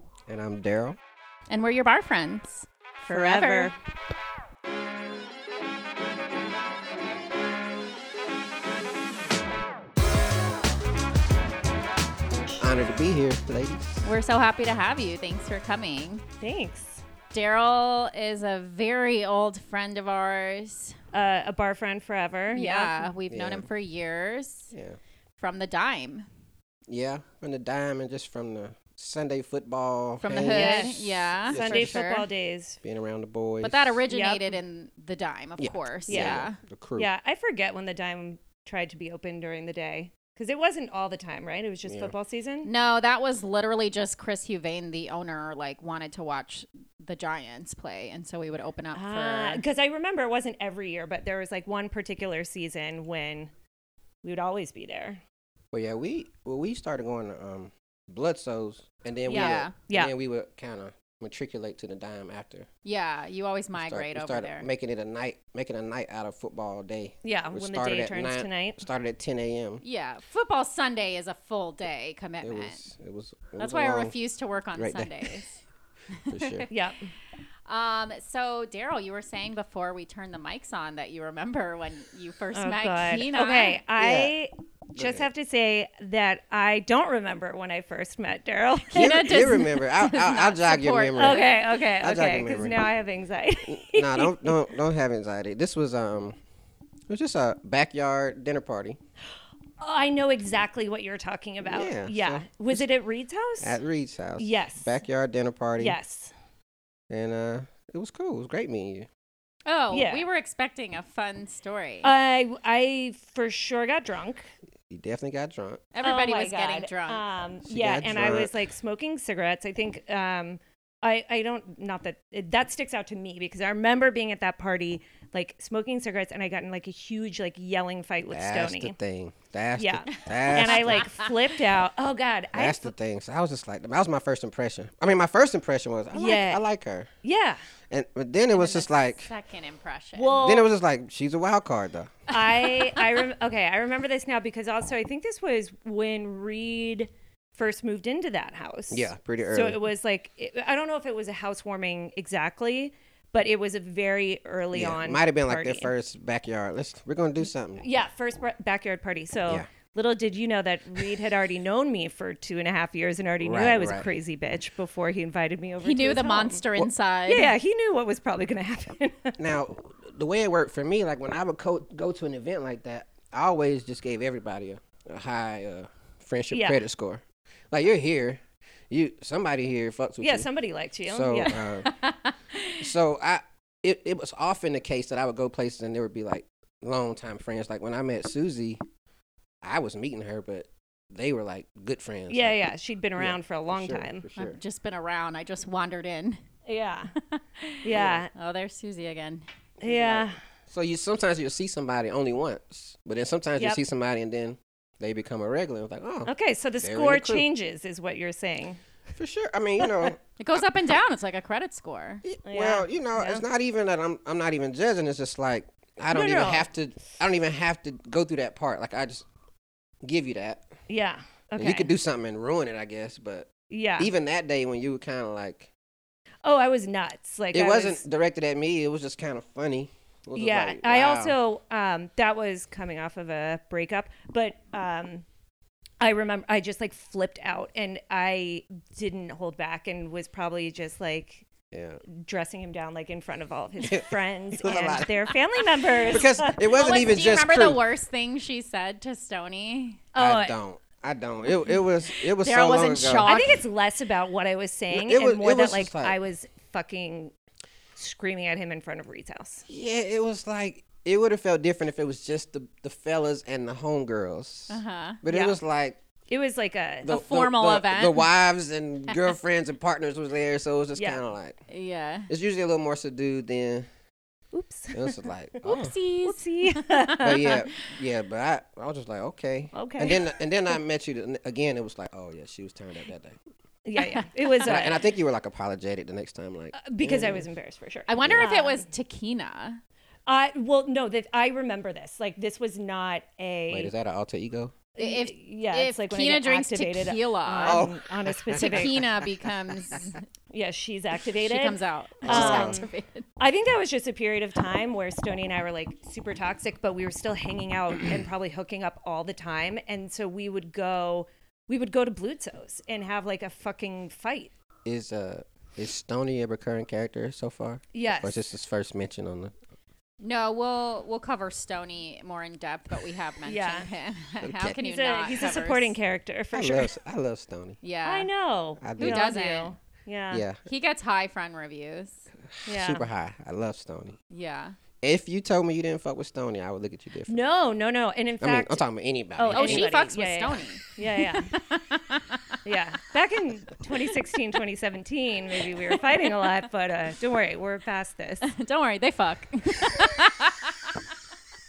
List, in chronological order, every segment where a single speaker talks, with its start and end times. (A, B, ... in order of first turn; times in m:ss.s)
0:00.3-0:01.0 A
0:01.5-0:03.7 B
0:03.1-0:03.8 C
0:12.6-0:14.0 A
0:14.0-0:16.2 B
0:16.4-0:17.0 C
0:17.3-0:21.0 B
0:21.1-0:23.1 C
0:22.5-0:24.7 B
0:23.3-0:23.7 A
0:24.7-0:25.0 A
0:25.4-0:26.3 B
0:26.9-0:32.0 A
0:30.2-0:32.3 B
0:30.4-0:32.8 C
0:32.8-0:34.0 A
0:33.6-0:36.6 B
0:34.1-0:34.6 C
0:35.6-0:37.1 A
0:36.1-0:36.4 C
0:37.0-0:42.7 C
0:41.9-0:42.1 A
0:42.6-0:49.6 B
0:48.9-0:53.5 C
0:54.2-0:55.2 C
0:55.7-1:02.7 A
0:59.3-1:00.1 C
0:59.3-0:59.7 B
1:02.8-1:04.7 B
1:03.8-1:09.8 A
1:07.2-1:08.8 C
1:09.8-1:12.8 B
1:12.4-1:14.1 A
1:13.6-1:15.6 B
1:14.8-1:15.4 A
1:16.1-1:16.8 B
1:16.3-1:16.7 A
1:16.7-1:17.0 C
1:17.7-1:23.8 B
1:22.5-1:29.2 C
1:24.0-1:24.3 A
1:25.0-1:25.3 A
1:28.9-1:31.5 B
1:28.9-1:32.8 A
1:31.2-1:34.6 C
1:33.7-1:36.4 A
1:37.1-1:39.0 A
1:39.8-1:43.8 C
1:41.6-1:42.8 A
1:43.6-1:46.0 A
1:44.4-1:44.9 C
1:45.8-1:46.3 C
1:47.1-1:49.1 A
1:49.7-1:52.1 B
1:49.9-1:50.2 C
1:52.0-1:54.5 C
1:54.9-1:55.8 A
1:55.9-1:57.2 B
1:56.0-2:09.0 C
1:57.7-1:58.5 A
2:08.3-2:11.1 A
2:09.8-2:12.9 C
2:10.4-2:11.3 B
2:12.5-2:17.1 A
2:16.1-2:16.6 C
2:17.2-2:17.6 C
2:17.9-2:19.3 A
2:18.5-2:20.4 B
2:20.2-2:20.7 C
2:20.4-2:22.6 A
2:22.3-2:35.9 C
2:28.9-2:29.8 A
2:34.7-2:37.8 A
2:37.8-2:46.7 C
2:43.4-2:44.1 A
2:45.8-2:47.5 B
2:47.3-2:49.4 C
2:49.4-3:00.5 A
2:56.5-2:56.8 C
3:00.2-3:01.8 C
3:01.1-3:01.9 A
3:01.8-3:02.9 B
3:02.8-3:08.8 A
3:09.6-3:12.6 A
3:12.3-3:14.3 C
3:13.2-3:14.6 A
3:14.4-3:16.4 B
3:16.7-3:17.1 C
3:17.2-3:19.4 B
3:17.8-3:18.3 C
3:17.9-3:18.2 A
3:19.8-3:27.5 A
3:19.8-3:20.4 C
3:26.3-3:28.8 C
3:29.2-3:30.6 A
3:29.8-3:30.1 C
3:30.4-3:32.2 B
3:32.2-3:39.3 A
3:32.5-3:33.4 C
3:36.1-3:36.7 C
3:40.0-3:40.7 A
3:40.9-3:41.9 C
3:41.6-3:45.7 A
3:43.7-3:44.1 C
3:46.4-3:48.0 C
3:47.5-3:51.4 A
3:50.4-3:55.2 C
3:56.0-4:01.5 C
4:01.7-4:02.0 A
4:02.1-4:06.6 C
4:03.8-4:07.8 A
4:06.6-4:10.0 B
4:10.1-4:10.6 C
4:10.2-4:13.4 A
4:12.4-4:13.6 B
4:13.2-4:17.3 C
4:14.9-4:16.2 A
4:18.0-4:19.6 C
4:19.7-4:26.0 A
4:24.7-4:25.2 B
4:25.3-4:25.6 C
4:26.3-4:27.1 C
4:27.0-4:31.6 A
4:27.1-4:28.3 B
4:31.0-4:31.2 C
4:31.7-4:32.3 B
4:32.3-4:33.9 A
4:34.5-4:37.6 C
4:34.9-4:35.9 A
4:35.6-4:37.6 B
4:37.2-4:43.4 A
4:39.7-4:40.3 C
4:43.9-4:45.0 C
4:44.0-4:44.8 B
4:44.6-4:47.5 A
4:46.7-4:48.8 C
4:48.1-4:49.8 B
4:48.2-4:48.5 A
4:50.3-4:53.9 C
4:53.7-4:54.8 A
4:55.0-4:59.0 C
4:55.0-4:57.9 B
4:57.6-4:59.5 A
4:58.5-5:00.2 B
5:00.5-5:14.5 C
5:01.4-5:03.2 B
5:02.2-5:02.8 A
5:14.8-5:19.5 A
5:17.9-5:18.5 C
5:20.2-5:25.9 B
5:23.4-5:23.9 C
5:24.4-5:24.8 A
5:24.8-5:26.9 C
5:26.5-5:27.8 A
5:27.8-5:28.3 B
5:28.0-5:30.4 C
5:28.8-5:29.3 A
5:29.0-5:29.7 B
5:30.3-5:30.7 A
5:30.6-5:32.3 B
5:32.5-5:34.2 A
5:32.7-5:33.1 C
5:34.3-5:34.8 B
5:35.0-5:37.4 A
5:37.3-5:38.8 C
5:38.4-5:39.9 A
5:39.4-5:41.5 C
5:39.5-5:42.6 B
5:42.6-5:48.5 C
5:45.6-5:46.0 B
5:48.4-5:50.9 B